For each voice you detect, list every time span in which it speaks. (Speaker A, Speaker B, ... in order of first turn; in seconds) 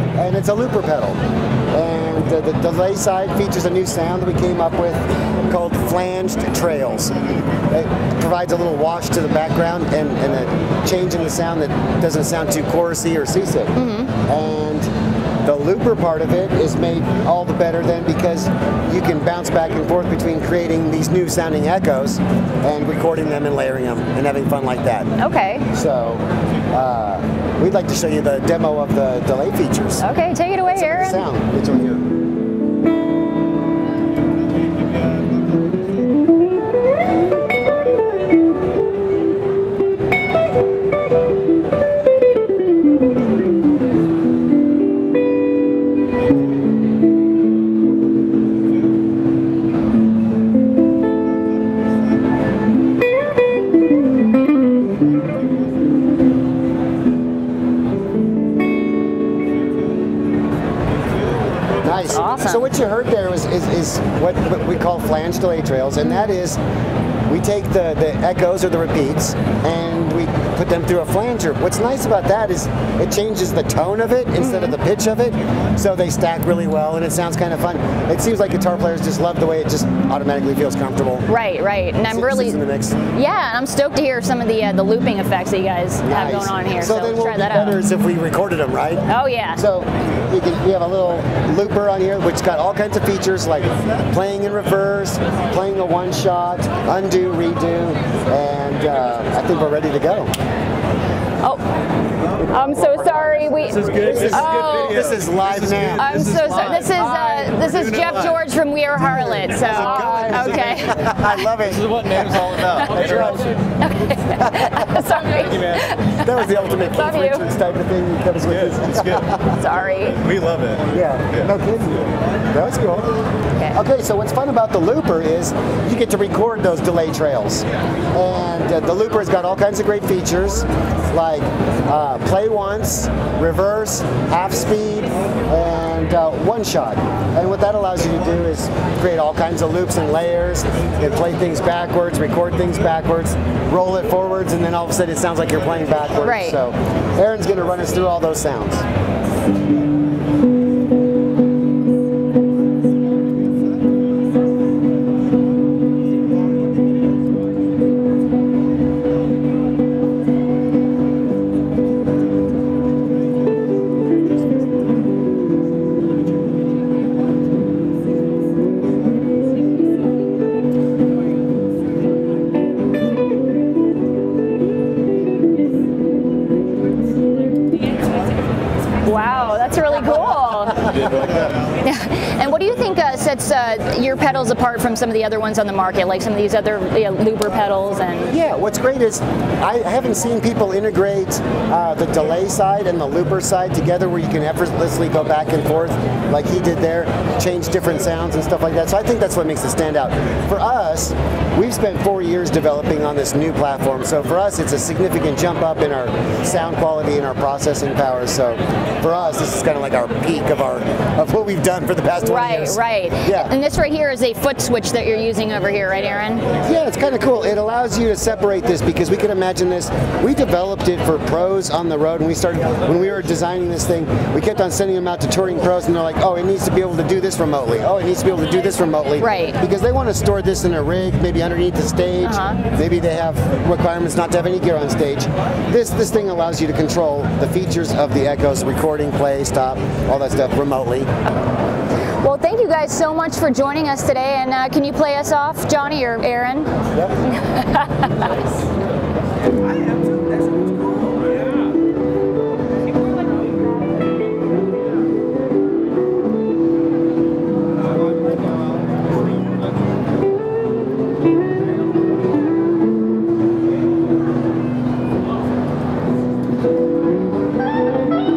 Speaker A: 0.2-1.2, 1.7-7.1, 7.7-14.9, 15.4-25.1, 25.7-30.0, 30.7-32.0, 61.8-66.6, 67.3-81.3, 82.1-83.0, 86.0-100.3, 102.6-106.9, 109.2-113.5, 114.4-115.0, 116.2-119.6, 120.9-123.1, 123.7-148.8, 188.3-213.5, 216.7-241.1
Speaker B: 13.8-14.1, 25.2-25.7, 30.0-31.2, 62.1-62.7, 74.4-74.8, 81.3-82.6, 83.1-87.8, 89.1-89.6, 102.4-105.1, 106.0-111.3, 112.6-117.4, 119.5-120.2, 146.2-146.6, 179.0-181.2, 181.8-188.3, 212.2-216.4, 229.2-229.6, 232.2-232.6, 242.2-246.7, 247.3-248.3
Speaker C: 103.7-108.3, 111.7-113.5, 115.4-115.8, 118.7-119.2, 120.2-120.9, 180.9-181.6